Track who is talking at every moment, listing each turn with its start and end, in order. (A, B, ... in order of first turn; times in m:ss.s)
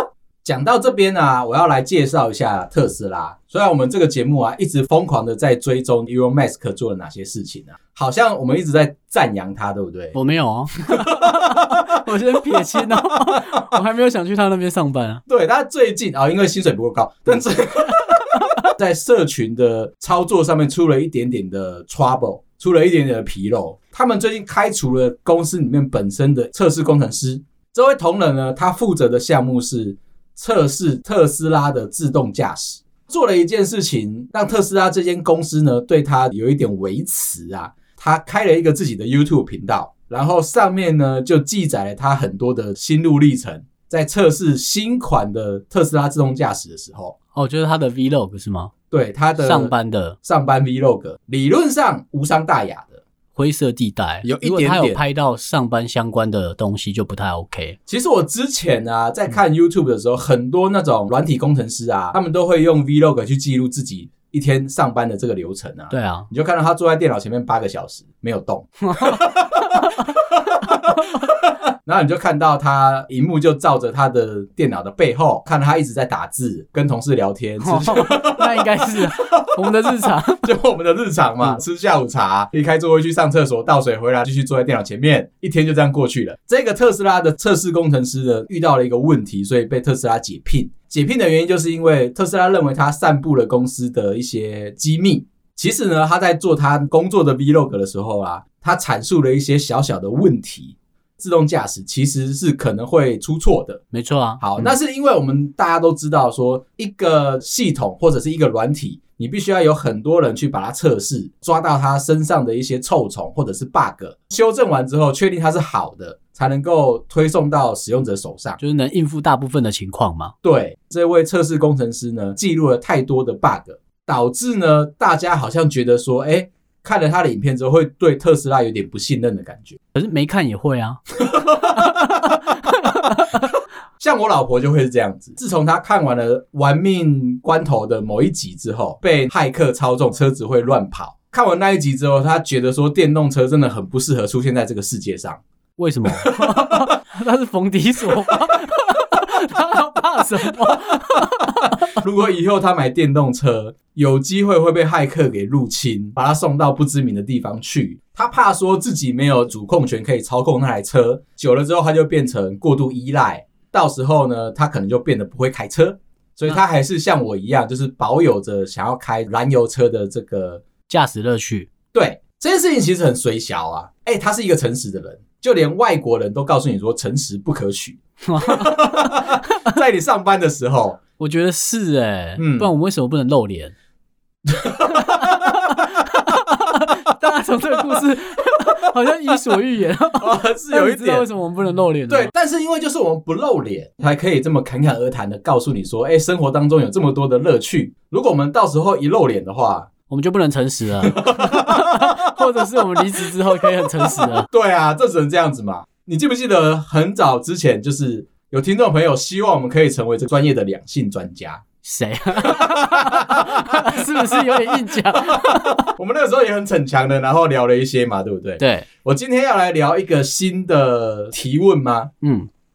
0:00.4-0:10.2 A
0:10.1-0:15.2 B
0:10.9-0:13.6 A
0:15.3-0:47.1 A
0:18.0-0:18.7 B
0:47.3-0:48.7 B
0:48.9-0:49.7 A
0:49.4-0:50.2 B
0:50.2-0:53.0 A
0:53.3-0:57.8 B
0:54.2-0:55.0 A
0:57.9-1:43.8 A
1:05.9-1:06.3 B
1:08.8-1:10.2 B
1:10.9-1:11.2 B
1:17.6-1:20.5 B
1:43.9-1:44.7 B
1:44.4-1:58.6 A
1:58.6-2:00.3 B
2:00.4-2:09.8 A
2:09.9-2:11.0 B
2:11.2-2:12.4 A
2:11.7-2:13.5 B
2:14.0-2:25.4 A
2:25.8-2:31.9 B
2:26.1-2:26.9 A
2:30.7-2:31.2 A
2:31.9-2:50.6 A
2:50.9-2:51.7 B
2:51.9-3:01.0 A
2:58.2-2:59.8 B
3:01.2-3:03.7 B
3:02.4-3:02.7 A
3:04.4-3:05.8 A
3:04.8-3:12.3 B
3:10.2-3:11.2 A
3:12.1-3:19.9 A
3:20.1-3:24.5 B
3:21.0-3:22.3 A
3:23.2-3:31.6 A
3:31.8-3:35.9 B
3:32.4-3:42.1 A
3:38.6-3:38.9 B
3:42.2-3:42.5 B